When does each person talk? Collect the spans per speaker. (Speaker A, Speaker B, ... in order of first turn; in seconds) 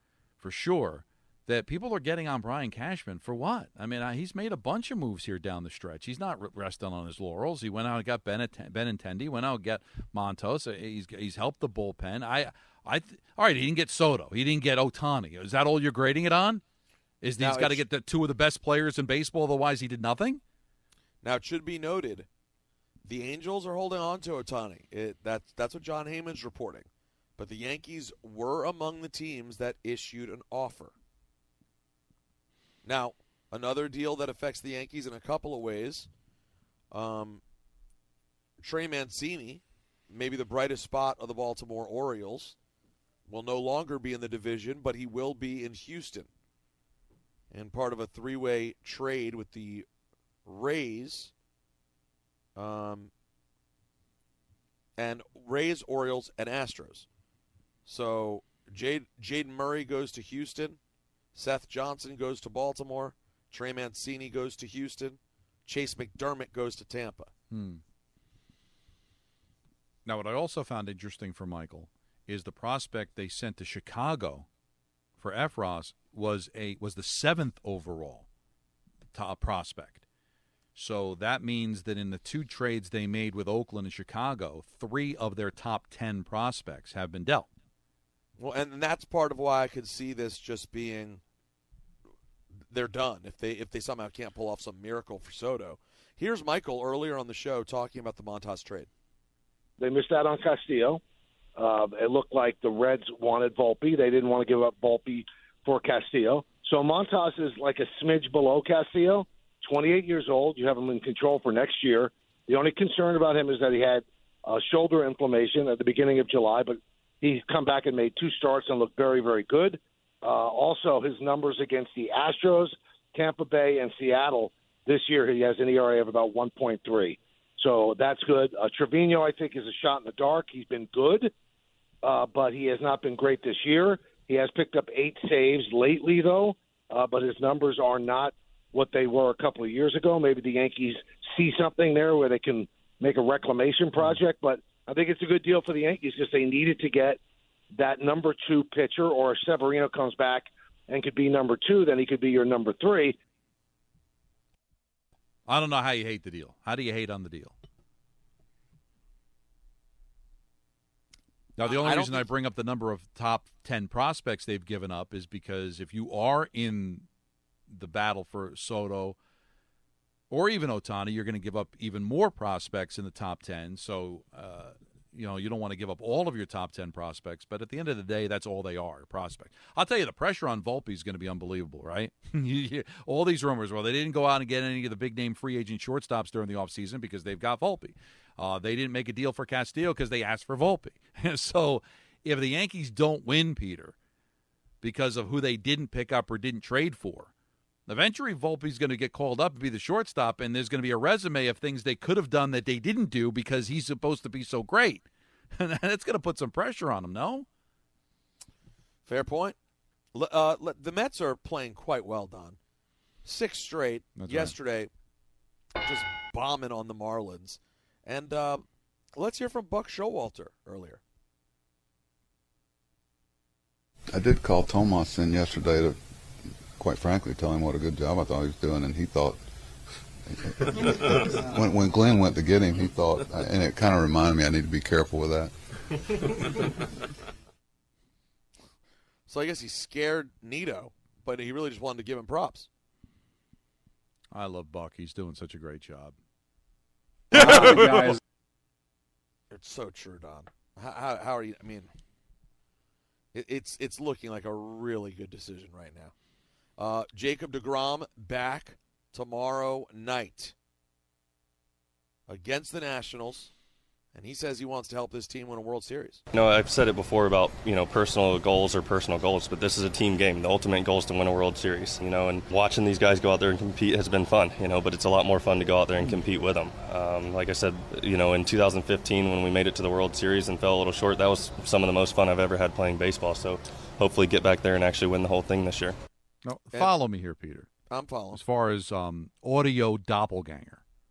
Speaker A: 0.4-16.6, 17.2-20.4, 67.5-67.8, 70.0-74.5, 75.2-78.2, 79.1-80.0, 80.7-87.5, 155.5-157.5, 161.6-167.1, 167.7-169.2, 170.3-193.9, 194.8-197.3, 197.9-207.4, 214.2-214.5, 244.3-246.1, 247.3-248.2, 286.4-287.7, 288.3-290.8
Speaker B: 17.4-17.8, 21.2-22.3, 23.0-30.9, 32.8-36.1, 36.9-37.4, 38.6-42.6, 43.3-46.3, 47.5-49.9, 50.5-51.3, 52.5-53.1, 55.0-57.1, 57.8-60.8, 61.3-67.3, 88.4-91.2, 92.6-98.9, 161.6-162.3, 209.1-209.6, 210.1-212.6, 213.2-214.9, 215.8-221.0, 239.3-242.7, 247.3-248.2, 249.5-251.9, 253.3-256.1, 256.8-260.5, 262.3-263.5, 264.1-266.2, 287.9-288.4
Speaker C: 99.8-101.0, 101.5-131.3, 132.0-147.2, 147.7-153.1
Speaker D: 224.1-226.0, 226.8-229.4, 230.3-235.5
Speaker E: 266.3-285.9